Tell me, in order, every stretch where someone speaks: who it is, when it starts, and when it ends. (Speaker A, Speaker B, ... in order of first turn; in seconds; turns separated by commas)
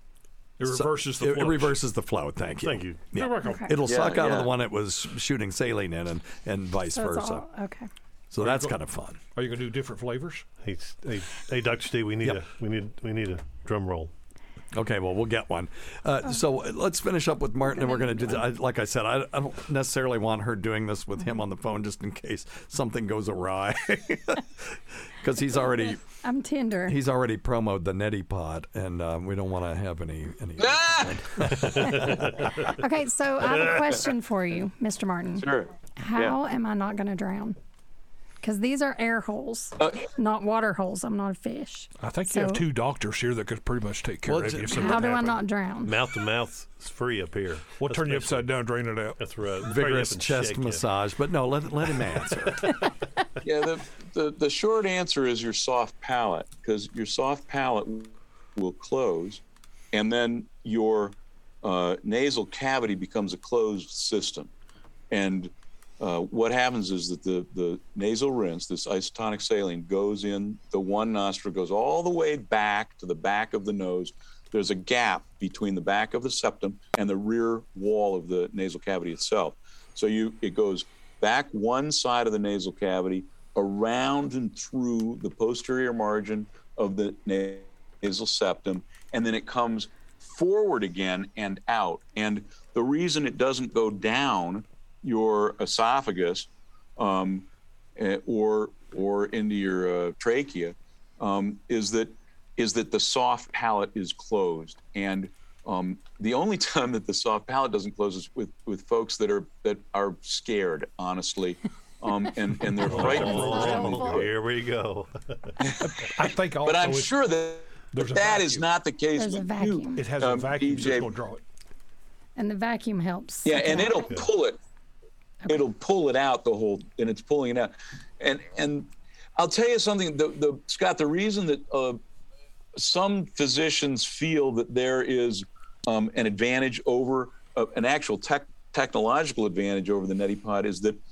Speaker A: 0.6-1.8, Speaker B: 0.7-7.5, Speaker C: 2.6-3.1, Speaker A: 3.1-3.7, Speaker D: 3.4-3.7, Speaker E: 3.8-4.5, Speaker D: 6.9-7.9, Speaker B: 8.3-9.2, Speaker A: 8.4-8.7, Speaker A: 9.3-10.4, Speaker C: 10.6-14.1, Speaker B: 14.7-26.0, Speaker D: 17.7-18.4, Speaker D: 25.6-27.0, Speaker B: 26.8-32.5, Speaker E: 30.6-31.2, Speaker C: 31.5-32.5, Speaker D: 32.6-35.5, Speaker C: 33.5-33.9, Speaker E: 35.4-36.3, Speaker D: 36.0-37.6, Speaker D: 38.4-42.6, Speaker A: 42.0-45.3, Speaker B: 44.2-45.0, Speaker D: 44.7-45.9, Speaker C: 45.8-50.8, Speaker A: 47.8-49.2, Speaker B: 49.6-52.7, Speaker C: 52.0-52.9, Speaker E: 53.4-64.5, Speaker E: 65.1-114.3, Speaker C: 112.8-115.5, Speaker A: 113.0-113.9, Speaker D: 113.1-114.2, Speaker A: 115.8-117.1, Speaker E: 116.6-121.1, Speaker A: 117.9-118.6, Speaker D: 119.2-120.0, Speaker A: 120.0-121.4, Speaker D: 122.4-124.0, Speaker E: 123.4-124.6, Speaker E: 125.5-132.0, Speaker E: 132.8-141.0